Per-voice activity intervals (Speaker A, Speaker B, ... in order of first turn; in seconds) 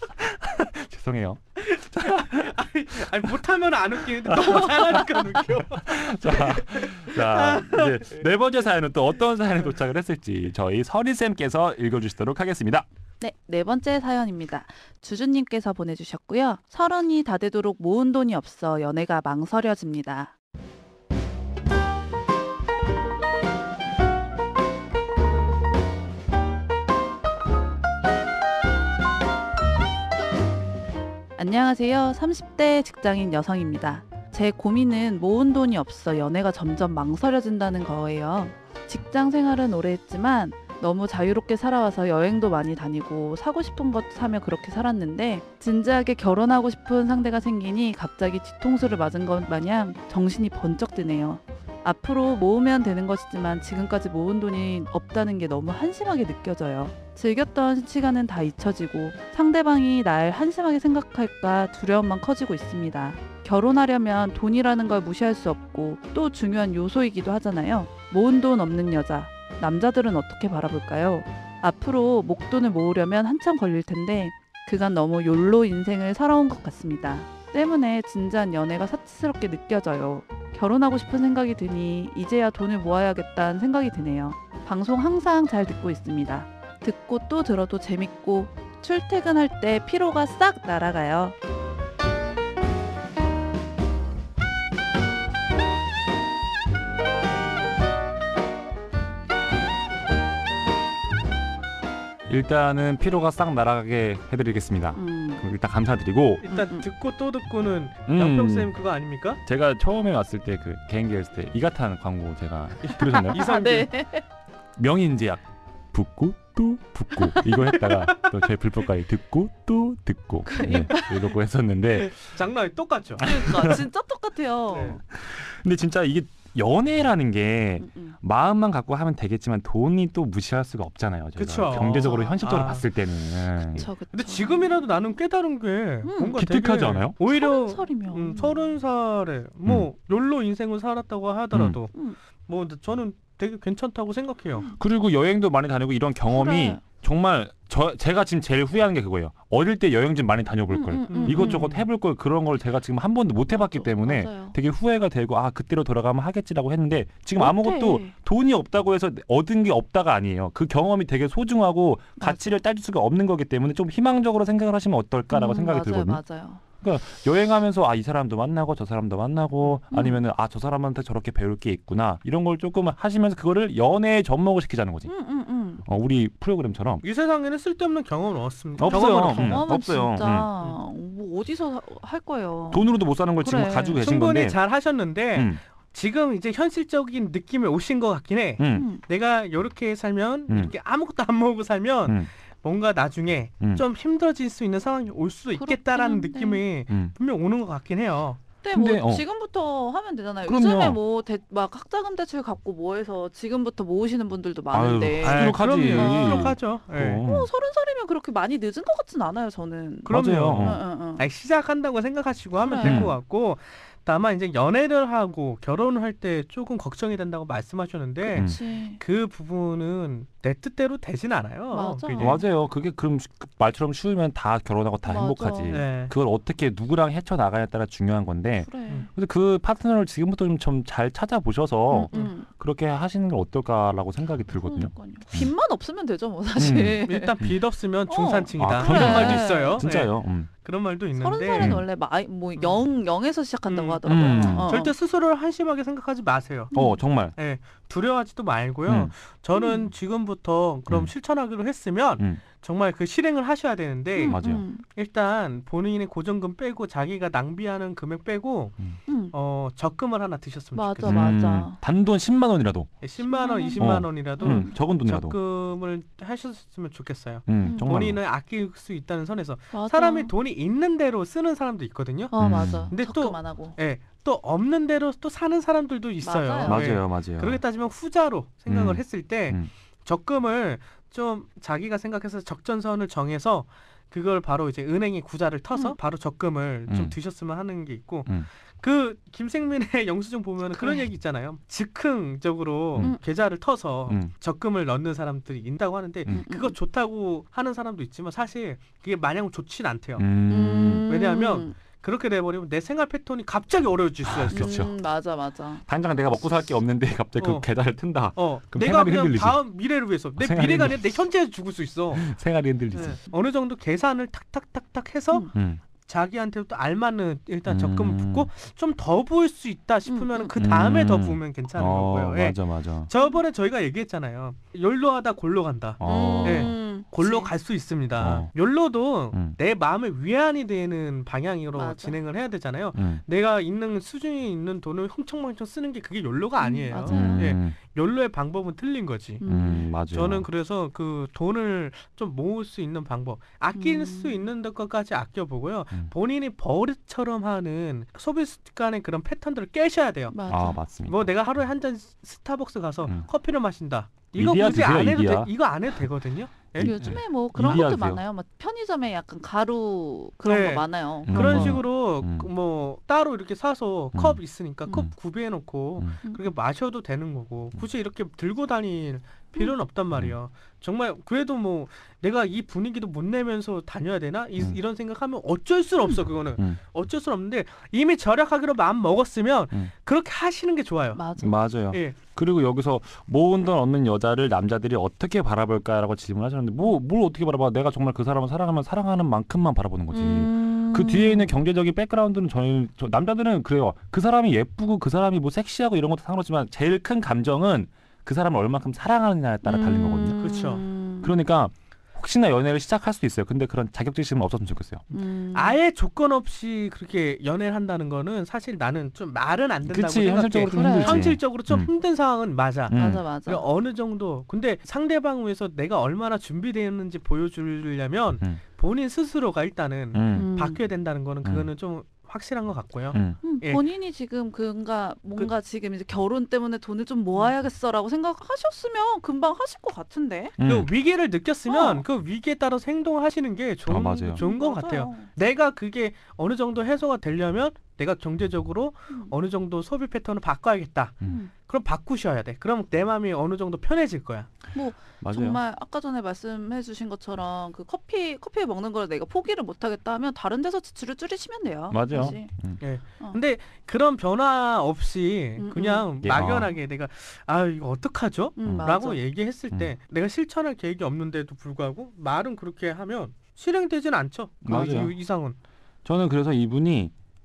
Speaker A: 0.2-2.5, 4.3-5.1, 5.8-12.9, 102.3-106.5, 108.1-108.7, 109.5-113.5, 114.8-122.4, 123.2-123.8, 125.1-133.9, 136.4-137.2, 141.5-141.8, 144.7-166.2, 166.8-175.1, 175.8-177.0, 178.8-180.5, 182.7-184.6, 185.3-185.6, 188.6-188.9, 198.7-199.2, 200.5-201.0, 204.7-207.5, 210.1-210.8, 212.8-213.2, 218.3-218.6, 222.2-235.5, 236.6-237.6, 238.6-240.5, 241.5-241.9, 244.1-244.7, 246.7-247.3, 248.9-249.1, 252.2-252.4, 254.3-254.6, 261.1-262.9, 263.8-265.4, 267.5-268.2, 272.4-272.9, 276.7-277.6, 278.7-279.7, 286.9-287.1, 300.2-301.1, 304.2-304.9, 305.9-309.6, 310.4-311.1, 312.1-313.2, 315.5-315.8, 317.7-318.5, 320.6-323.1, 326.0-326.8, 328.2-328.5, 332.9-333.2, 337.0-337.8, 339.5-340.5, 350.5-351.3, 354.4-355.5, 356.8-358.2, 361.3-362.5, 364.1-364.4, 381.4-400.5, 401.2-405.0, 409.9-411.9, 412.9-413.2, 420.1-420.5, 421.4-421.7, 423.1-423.4, 430.6-430.9, 433.9-434.5, 445.2-445.6, 451.9-452.8, 456.2-456.8, 458.7-458.9, 464.6-465.1, 466.1-467.1
Speaker B: 1.7-8.2, 106.4-109.4, 112.8-113.9, 117.5-118.4, 122.0-123.3, 124.7-125.0, 131.4-132.8, 134.1-141.9, 142.5-144.7, 151.1-151.8, 177.0-179.7, 183.9-198.4, 205.2-207.2, 210.1-222.4, 225.7-226.1, 237.0-241.8, 242.6-242.8, 243.7-246.7, 247.3-258.8, 259.3-261.2, 263.0-272.4, 272.9-300.2, 301.1-304.8, 307.4-307.7, 308.3-312.3, 312.9-315.5, 316.0-339.4, 340.1-350.4, 351.1-357.8, 360.4-381.2, 381.9-382.2, 400.4-400.9, 405.5-423.8, 430.6-444.5, 452.8-465.6
Speaker C: 13.2-20.3, 31.4-91.3, 105.0-105.4, 106.5-106.9, 113.0-114.2, 120.5-121.4, 123.2-125.0, 127.8-128.2, 131.7-132.5, 133.5-135.2, 136.0-136.4, 137.3-138.8, 141.9-142.2, 146.3-146.8, 150.7-151.7, 153.5-154.6, 157.4-158.1, 162.2-162.6, 165.3-166.6, 169.9-170.2, 175.1-175.8, 178.8-184.0, 188.7-189.0, 195.6-196.7, 198.6-206.6, 207.2-211.3, 212.6-213.1, 218.2-219.0, 221.7-222.4, 225.1-225.8, 228.6-229.1, 231.9-232.5, 234.5-237.4, 238.1-239.8, 241.2-244.9, 246.7-247.0, 249.5-249.9, 254.2-254.8, 259.1-259.3, 260.8-261.8, 263.2-264.7, 267.6-267.9, 269.7-270.3, 272.3-273.8, 276.2-276.9, 290.7-291.1, 296.3-296.8, 300.5-301.8, 304.5-305.8, 320.1-320.5, 326.0-327.5, 331.7-332.2, 336.6-337.5, 339.4-339.9, 343.8-344.5, 350.3-350.8, 356.8-361.8, 366.2-366.5, 381.1-381.5, 390.1-391.5, 399.6-401.4, 405.1-405.8, 410.7-411.3, 412.9-413.6, 420.3-420.8, 423.4-430.6, 431.7-432.1, 434.2-435.3, 441.2-441.5, 444.7-452.5, 455.6-456.1, 458.6-459.2